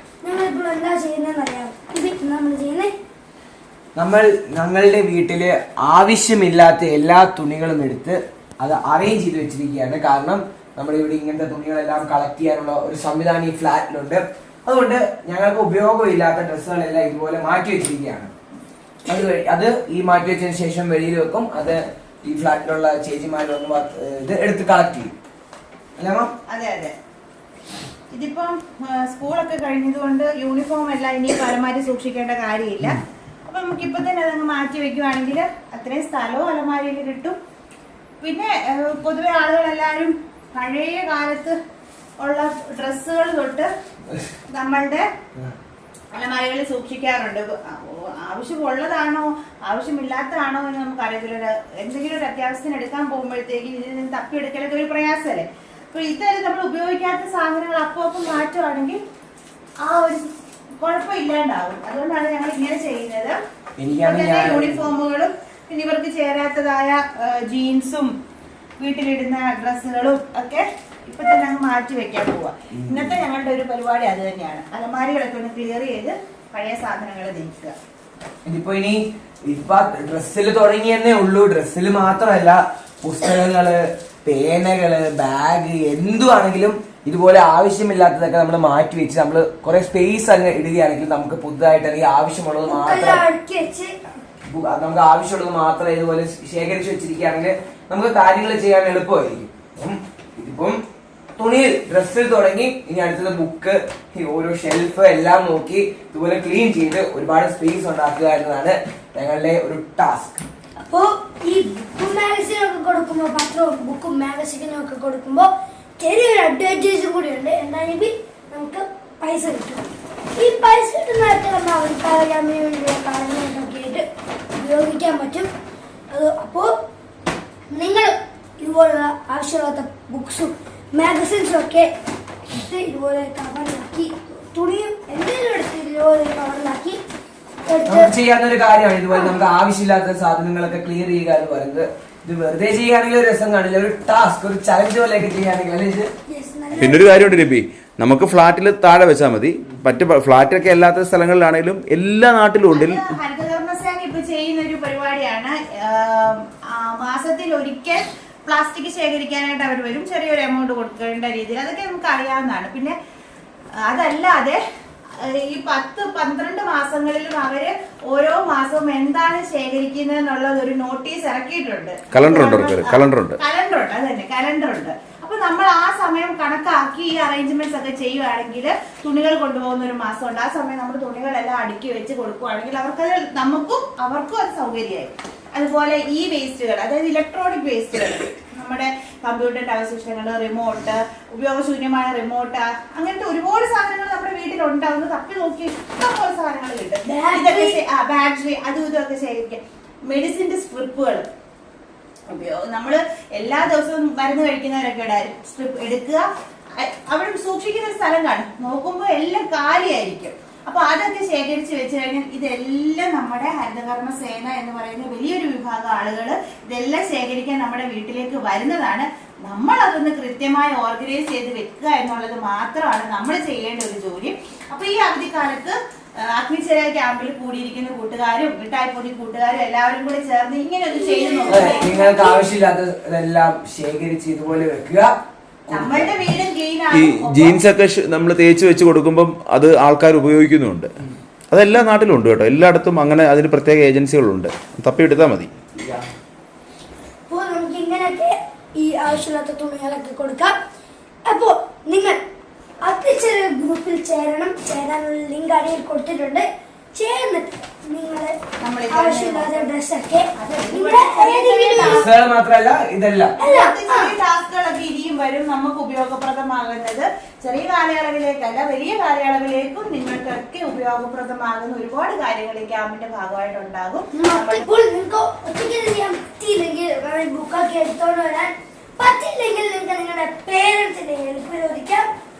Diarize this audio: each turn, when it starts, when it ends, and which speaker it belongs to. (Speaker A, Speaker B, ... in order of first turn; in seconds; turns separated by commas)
Speaker A: 0.2-2.9, Speaker B: 4.0-18.3, Speaker B: 19.0-25.1, Speaker B: 26.0-26.3, Speaker C: 26.5-26.9, Speaker C: 28.1-37.4, Speaker C: 38.2-41.5, Speaker C: 42.2-43.7, Speaker C: 44.5-45.0, Speaker C: 46.1-59.0, Speaker C: 59.8-60.2, Speaker C: 60.8-63.4, Speaker B: 63.8-64.9, Speaker C: 64.0-68.1, Speaker C: 68.8-77.7, Speaker B: 72.7-73.2, Speaker B: 78.5-93.2, Speaker A: 92.6-94.0, Speaker B: 94.5-100.8, Speaker B: 101.4-110.4, Speaker A: 110.9-125.5, Speaker A: 126.1-126.7, Speaker A: 127.7-131.9, Speaker A: 132.5-137.0, Speaker A: 137.6-138.1, Speaker B: 137.8-146.1, Speaker A: 146.3-147.3, Speaker D: 146.8-153.1, Speaker C: 152.7-162.9, Speaker C: 163.8-164.6, Speaker C: 165.2-201.2, Speaker D: 172.1-173.4, Speaker A: 197.1-197.8, Speaker C: 202.3-206.2, Speaker C: 206.8-232.0, Speaker A: 230.9-232.4, Speaker B: 231.5-235.1, Speaker B: 235.7-236.1, Speaker C: 235.7-237.7, Speaker D: 236.9-240.9, Speaker D: 241.5-245.5, Speaker B: 245.8-246.0, Speaker A: 247.3-250.5, Speaker A: 251.2-252.2, Speaker A: 252.8-258.3, Speaker C: 258.6-259.7, Speaker A: 258.9-262.0, Speaker C: 260.4-262.1, Speaker B: 261.8-263.3, Speaker A: 263.4-264.1, Speaker C: 263.4-274.6, Speaker A: 274.1-282.1